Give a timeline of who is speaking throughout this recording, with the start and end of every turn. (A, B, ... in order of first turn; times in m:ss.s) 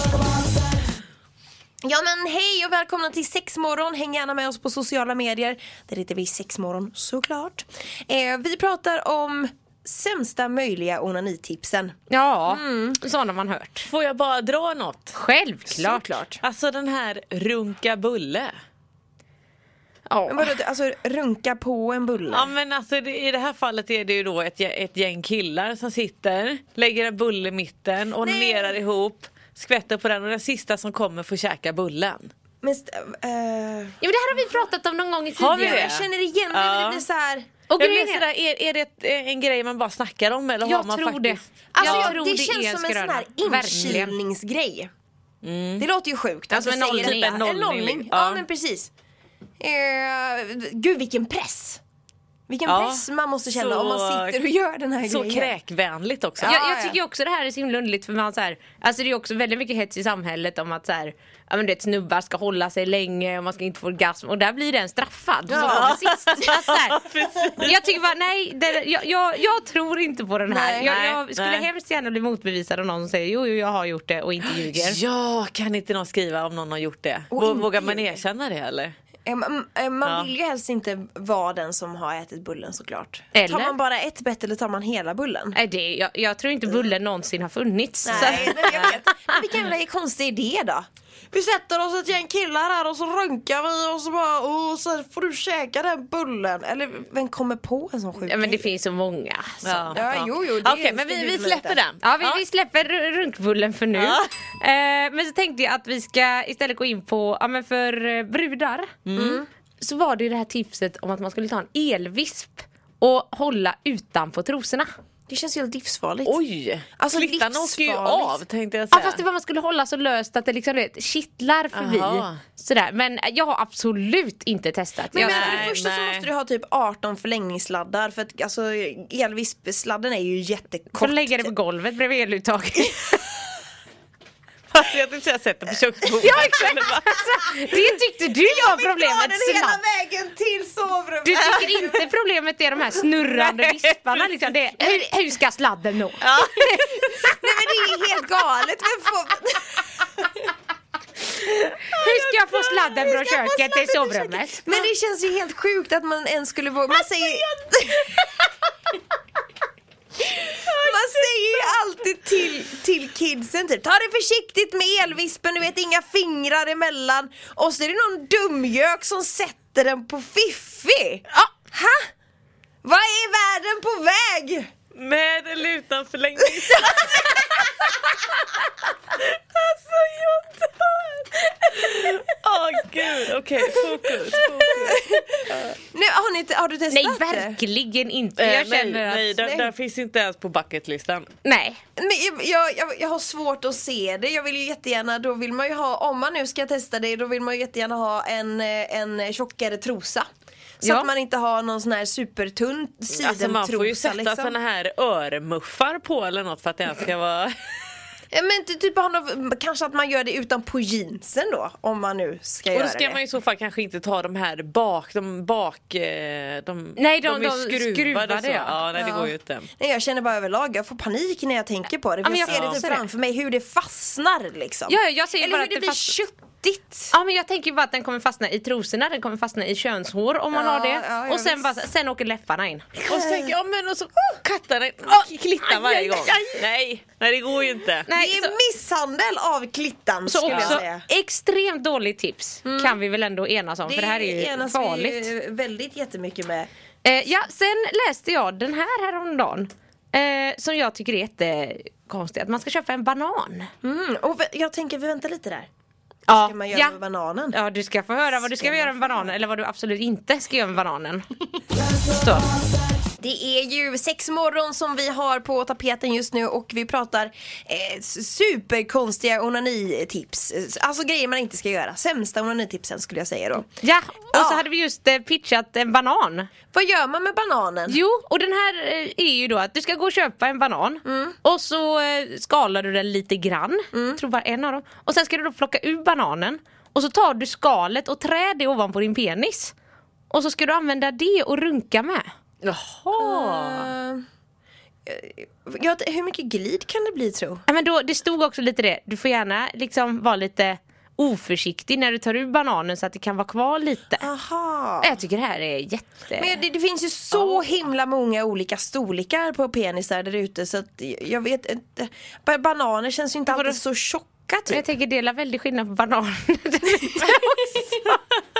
0:01.8-0:11.9 A
0:12.1-0:13.9 B
0:12.5-0:13.0 A
0:13.9-0:15.2 C
0:15.1-0:16.2 B
0:15.7-0:16.4 A
0:16.4-0:18.5 C
0:20.1-0:20.5 B
0:20.3-0:22.5 A
0:22.3-0:32.3 C
0:28.2-0:28.8 A
0:32.6-0:34.0 A
0:34.0-0:36.0 B
0:35.4-0:37.0 C
0:35.4-0:37.4 A
0:37.7-0:38.2 B
0:37.8-0:42.1 C
0:40.6-0:44.1 B
0:41.7-0:44.9 A
0:43.7-0:44.1 C
0:45.4-0:45.9 C
0:45.8-0:48.9 A
0:46.5-0:47.4 B
0:47.0-0:48.4 C
0:49.6-0:51.8 A
0:52.5-0:55.5 A
0:52.6-0:54.4 C
0:55.0-0:56.6 C
0:56.4-0:57.0 A
0:56.4-1:07.0 B
1:05.5-1:06.0 A
1:05.5-1:07.9 C
1:07.6-1:15.0 B
1:10.5-1:10.9 A
1:10.8-1:11.7 C
1:14.5-1:18.9 C
1:17.3-1:18.2 A
1:19.2-1:25.6 A
1:20.0-1:20.3 C
1:23.3-1:23.7 B
1:25.5-1:29.4 B
1:28.0-1:38.7 A
1:28.1-1:29.0 C
1:38.2-1:40.0 B
1:39.6-1:42.4 C
1:39.9-1:41.8 A
1:42.0-1:48.9 B
1:43.9-1:44.3 C
1:49.0-1:49.4 C
1:49.1-1:49.5 A
1:49.8-1:54.9 B
1:55.3-1:56.4 A
1:56.2-1:59.2 C
1:57.0-1:58.4 A
1:58.9-2:05.7 B
2:01.7-2:02.4 C
2:05.1-2:11.5 A
2:05.1-2:06.3 C
2:10.9-2:13.2 B
2:14.7-2:17.0 C
2:16.2-2:19.8 B
2:16.2-2:16.5 A
2:18.4-2:22.0 A
2:21.2-2:27.4 B
2:23.2-2:24.6 C
2:26.2-2:26.8 C
2:27.1-2:30.3 A
2:31.9-2:34.8 B
2:31.9-2:33.2 C
2:33.2-2:38.2 A
2:40.3-2:41.7 C
2:40.8-2:52.0 A
2:52.8-2:54.7 A
2:54.9-2:57.9 C
2:56.6-2:57.2 A
2:59.5-3:00.5 C
3:01.6-3:05.0 C
3:04.8-3:07.6 A
3:06.9-3:09.3 B
3:08.4-3:11.3 C
3:09.3-3:09.7 A
3:11.4-3:11.8 B
3:12.0-3:20.2 A
3:20.8-3:24.5 A
3:20.8-3:21.1 B
3:23.2-3:27.5 C
3:28.3-3:33.2 A
3:32.7-3:39.7 C
3:37.0-3:38.8 B
3:38.9-3:47.1 A
3:42.2-3:43.0 B
3:42.4-3:42.8 C
3:44.9-3:46.2 B
3:47.1-3:53.1 B
3:50.5-3:51.8 A
3:53.1-3:58.1 C
3:53.1-3:53.5 A
3:55.0-3:56.6 B
3:58.0-3:58.5 B
3:58.1-4:01.0 A
4:00.2-4:05.3 B
4:00.5-4:00.8 C
4:02.6-4:03.0 A
4:03.8-4:06.7 A
4:07.0-4:13.7 B
4:13.8-4:15.7 A
4:16.3-4:17.0 B
4:16.3-4:17.6 A
4:17.5-4:21.2 B
4:18.4-4:19.4 A
4:22.1-4:22.5 B
4:23.2-4:33.7 A
4:33.8-4:36.5 B
4:34.3-4:34.6 A
4:36.7-4:38.0 A
4:37.9-4:49.7 B
4:41.0-4:41.4 A
4:43.9-4:44.2 A
4:50.3-4:52.2 B
4:52.6-4:53.9 C
4:53.2-4:54.2 A
4:55.0-4:57.6 A
4:57.7-5:04.2 B
5:04.2-5:05.2 A
5:05.0-5:06.5 B
5:06.4-5:14.8 A
5:07.3-5:07.7 B
5:13.5-5:13.8 B
5:14.7-5:17.9 B